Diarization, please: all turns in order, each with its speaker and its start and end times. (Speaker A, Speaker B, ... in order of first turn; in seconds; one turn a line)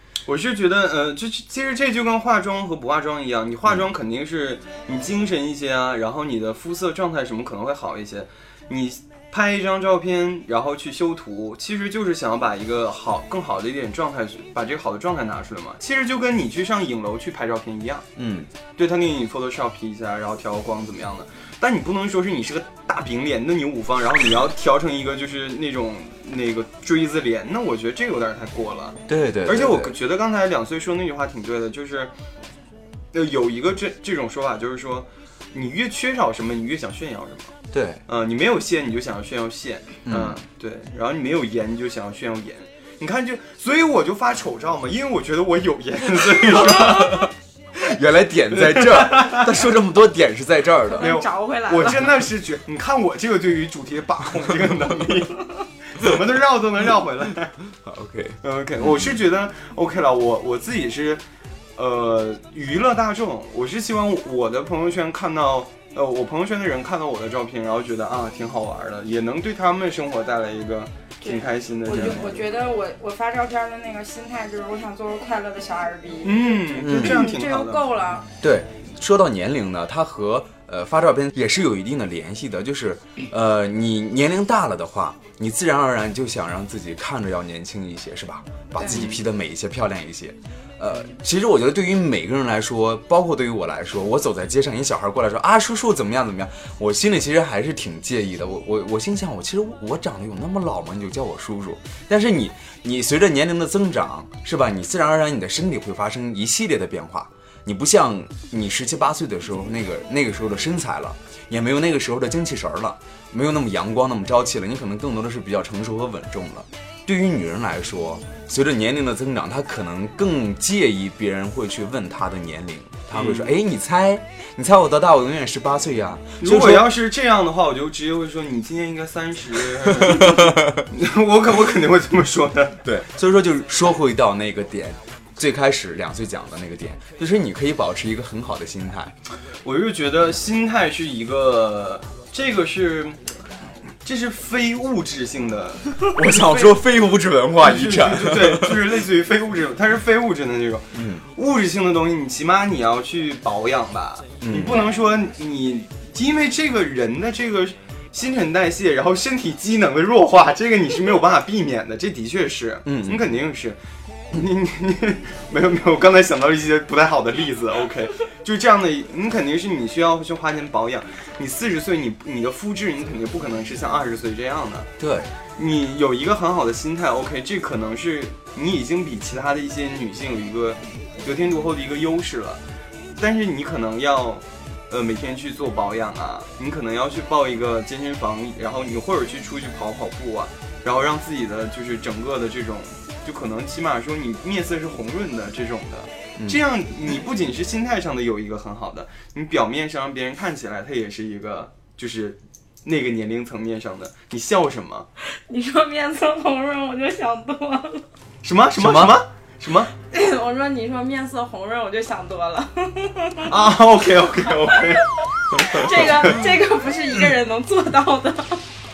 Speaker A: 0.2-18.1
Speaker B: 18.2-18.5
Speaker A: 18.8-32.1
Speaker B: 29.1-29.9
Speaker A: 33.1-37.5
Speaker B: 37.7-38.0
Speaker A: 38.0-47.3
Speaker B: 40.1-40.4
Speaker B: 46.7-51.2
Speaker A: 48.7-49.5
Speaker C: 50.9-52.0
Speaker A: 51.0-57.5
Speaker B: 57.8-59.2
Speaker A: 58.4-61.2
Speaker A: 61.8-72.4
Speaker C: 71.2-78.3
Speaker A: 76.2-77.8
Speaker B: 76.8-77.2
Speaker B: 78.4-126.9
Speaker A: 88.9-89.2
Speaker A: 123.1-123.5
Speaker A: 126.4-132.8
Speaker B: 130.2-130.8
Speaker B: 132.8-139.1
Speaker A: 139.6-143.2
Speaker A: 144.0-146.5
Speaker B: 146.1-148.8
Speaker A: 147.6-163.8
Speaker B: 150.9-151.2
Speaker B: 154.4-154.8
Speaker B: 162.8-163.2
Speaker A: 164.3-174.9
Speaker B: 175.0-175.3
Speaker A: 175.6-182.6
Speaker A: 183.2-205.1
Speaker C: 205.3-208.0
Speaker A: 208.4-209.9
Speaker B: 208.8-209.2
Speaker C: 210.1-213.5
Speaker A: 213.4-215.0
Speaker C: 214.6-218.6